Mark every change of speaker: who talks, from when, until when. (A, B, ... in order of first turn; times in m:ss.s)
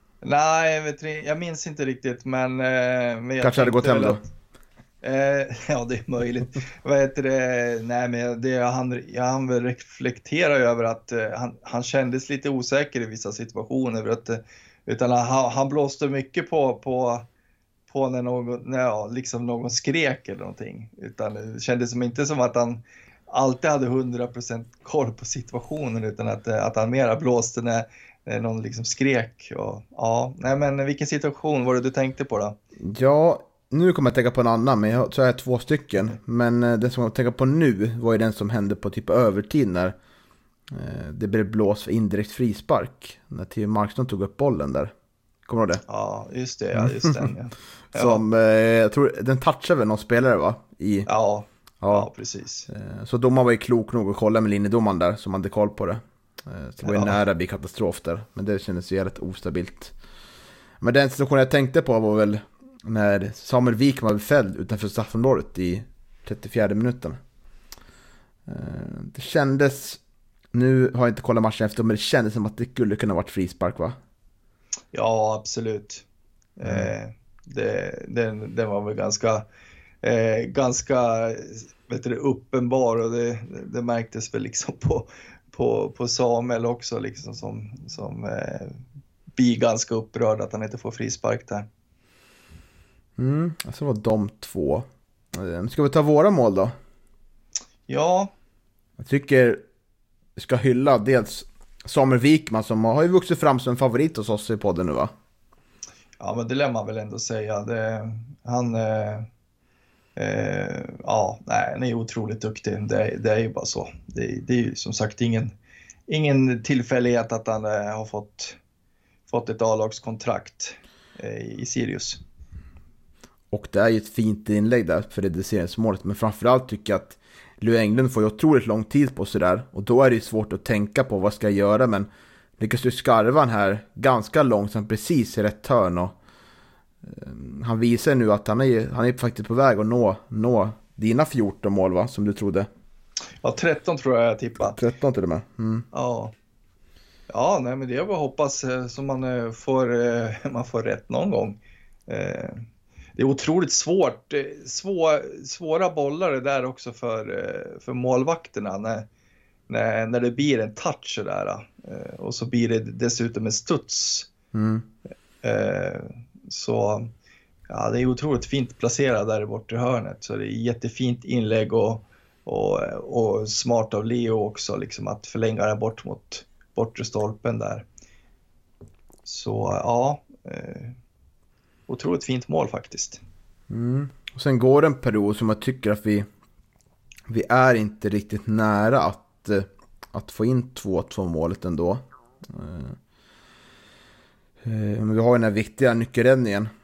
0:00.2-0:04.2 A
0:03.4-0:04.2 B
0:05.0-0:17.3 A
0:17.9-0:32.6 A
0:32.8-0:39.9 B
0:40.7-0:44.9 B
0:45.4-0:45.8 B
0:45.9-0:48.2 A
0:46.7-0:47.3 B
0:47.9-0:51.1 B
0:51.1-0:52.7 A
0:51.8-0:52.1 B
0:52.7-0:59.9 B
0:56.9-0:57.2 A
1:00.8-1:07.2 B
1:08.4-1:10.0 B
1:10.5-1:14.0 B
1:14.9-1:16.0 A
1:16.6-1:19.4 A
1:16.6-1:16.9 B
1:20.0-1:28.7 A
1:29.4-1:31.6 A
1:33.2-1:36.7 B
1:37.9-1:38.3 A
1:39.0-1:39.6 B
1:40.4-1:45.1 B
1:46.2-1:49.3 A
1:50.2-1:55.5 A
1:56.1-1:58.6 A
1:59.3-2:02.2 A
2:03.5-2:16.1 B
2:17.0-2:22.7 B
2:23.4-2:24.8 A
2:24.6-2:25.9 B
2:25.9-2:26.3 A
2:27.3-2:32.6 A
2:33.2-2:39.1 A
2:39.7-2:44.3 A
2:44.5-2:44.9 B
2:45.4-2:47.1 A
2:47.7-2:57.8 A
2:59.2-3:00.9 A
3:01.9-3:03.2 A
3:03.7-3:06.2 B
3:07.3-3:13.0 B
3:14.6-3:16.7 B